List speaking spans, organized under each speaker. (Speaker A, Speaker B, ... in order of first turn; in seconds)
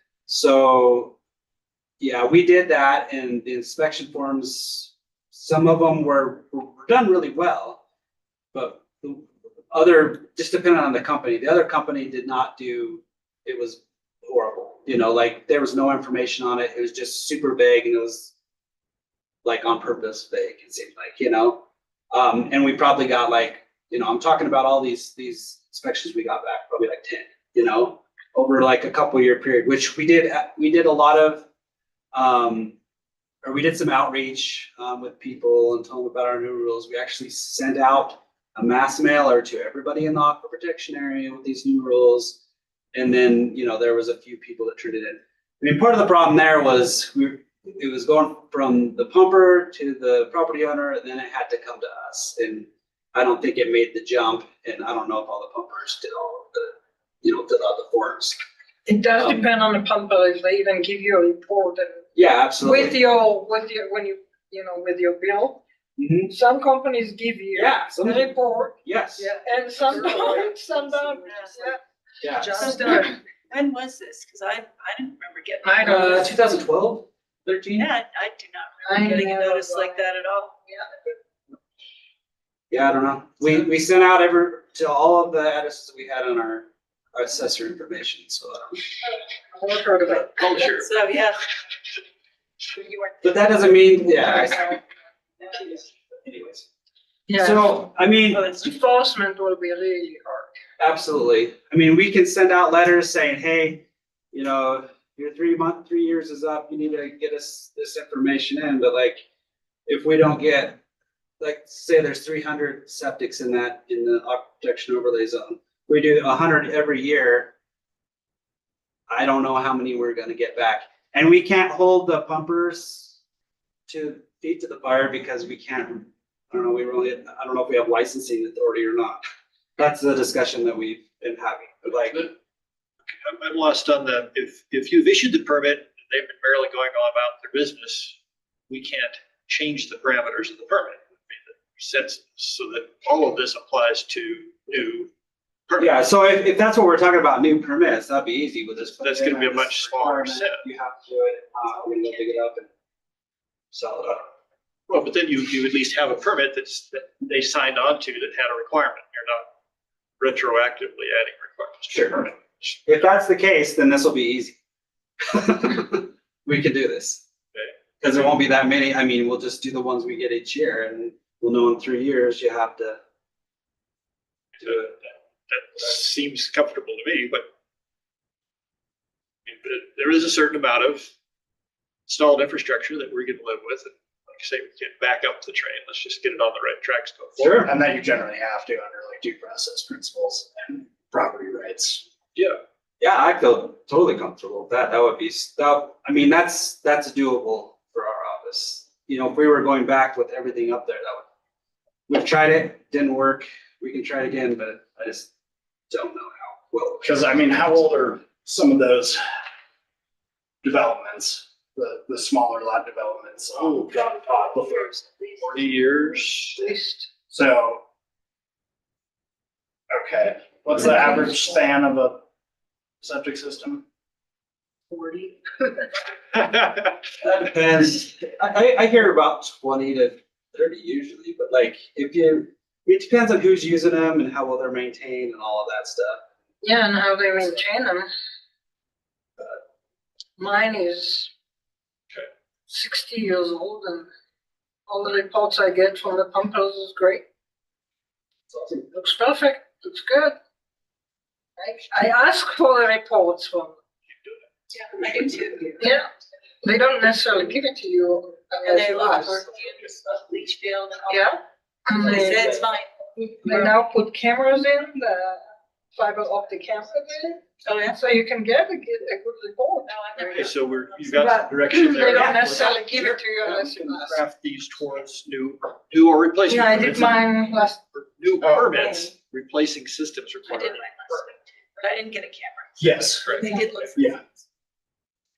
Speaker A: 0.3-1.2, 2.0-7.8, 8.5-18.3, 19.4-31.4, 32.1-32.8, 33.4-42.4, 42.9-58.4, 59.2-59.4, 62.1-63.0, 66.0-66.3, 67.5-69.3, 72.2-72.8, 75.8-77.9, 82.7-88.8, 93.2-94.8, 95.5-96.7, 97.3-98.4, 100.8-109.2, 109.9-110.8, 111.4-117.5, 119.1-123.2, 123.9-129.2, 129.8-132.3, 145.8-152.7, 153.7-154.3, 161.9-162.3, 162.8-164.6, 165.2-167.2, 168.0-173.0, 187.4-187.7, 193.0-201.3, 202.1-205.3, 205.9-207.5, 227.2-236.2
Speaker B: 58.9-62.1, 62.6-65.6, 66.3-73.1, 75.7-76.2, 78.9-79.9, 89.5-90.3, 97.3-97.8, 98.3-100.5, 216.6-217.1, 224.9-225.3, 236.6-238.1, 240.4-241.3, 242.7-244.1, 244.9-247.2, 248.7-250.3, 251.6-253.8, 255.8-256.1, 256.6-259.5, 261.1-262.6, 263.4-270.4, 271.2-274.2, 276.5-277.8
Speaker C: 69.6-71.8, 72.5-76.3, 77.8-80.6, 90.6-91.4, 92.7-93.6, 254.7-255.9, 258.6-261.4, 261.9-263.7, 267.6-268.0, 269.9-271.3, 280.5-284.2
Speaker D: 90.1-90.9, 133.2-138.2, 138.7-145.1, 145.7-146.0, 149.0-150.6, 154.9-159.5, 160.2-162.7, 174.6-177.4, 179.5-181.1, 182.1-187.6, 215.4-216.6, 270.3-277.3, 278.0-281.3, 283.2-283.6
Speaker E: 187.4-192.1, 207.0-209.2, 210.6-215.0, 217.3-217.8, 219.9-222.2, 223.0-223.8, 282.8-283.3, 284.0-284.2